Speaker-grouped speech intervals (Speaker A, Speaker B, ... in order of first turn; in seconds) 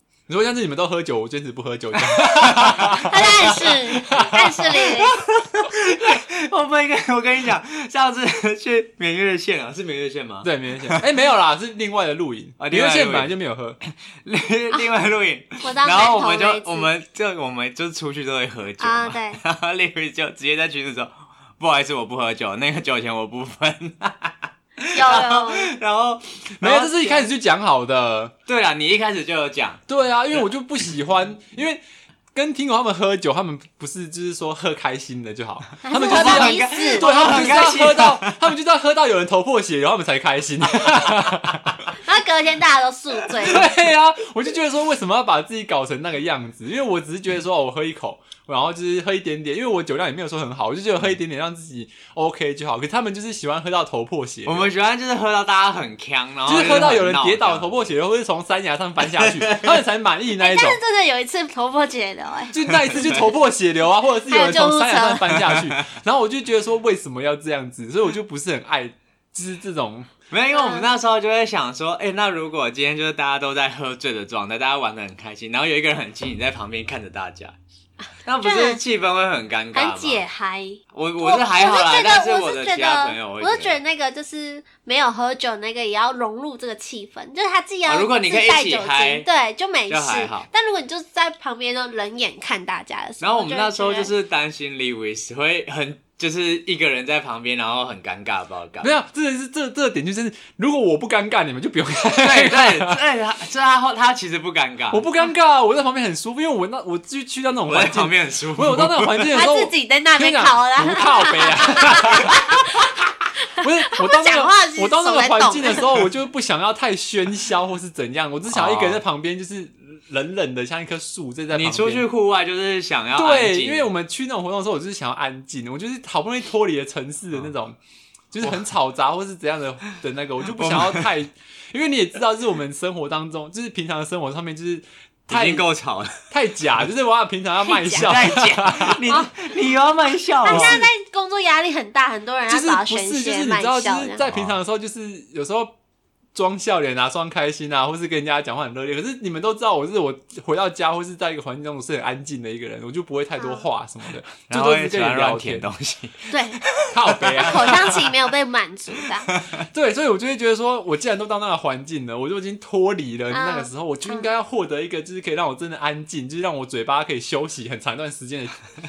Speaker A: 0.3-4.6, 10.4-13.8, 26.6-28.3, 29.9-41.8, 43.5-54.7, 56.5-60.8, 62.5-70.1, 98.8-103.0, 104.9-122.1, 123.2-127.8, 128.3-135.7, 136.3-139.0, 140.5-140.9, 142.5-145.7, 146.3-155.7, 156.9-157.9, 159.7-168.7
Speaker B: 2.0-11.0, 12.6-27.3, 28.5-29.8, 36.0-38.5, 40.9-41.4, 54.5-57.9, 59.0-59.8, 62.7-63.3, 65.3-65.8, 70.3-77.6, 78.3-80.2, 80.9-83.8, 87.9-89.3, 89.9-90.5, 93.2-99.0, 102.2-105.1, 107.7-109.4, 118.5-119.0, 121.5-123.9, 130.6-131.1, 135.3-136.2, 137.9-140.8, 144.2-144.6, 154.5-158.2, 159.1-159.6
Speaker C: 2.9-5.2, 15.6-16.9, 18.8-19.4, 24.9-25.8, 35.8-37.9, 42.0-43.7, 60.4-62.6, 64.3-65.4, 70.5-70.9, 78.4-78.8, 79.7-94.1, 109.3-112.8, 113.6-115.9, 137.7-138.1, 140.4-144.2, 153.4-153.7, 156.3-156.7, 157.4-159.3, 163.3-164.3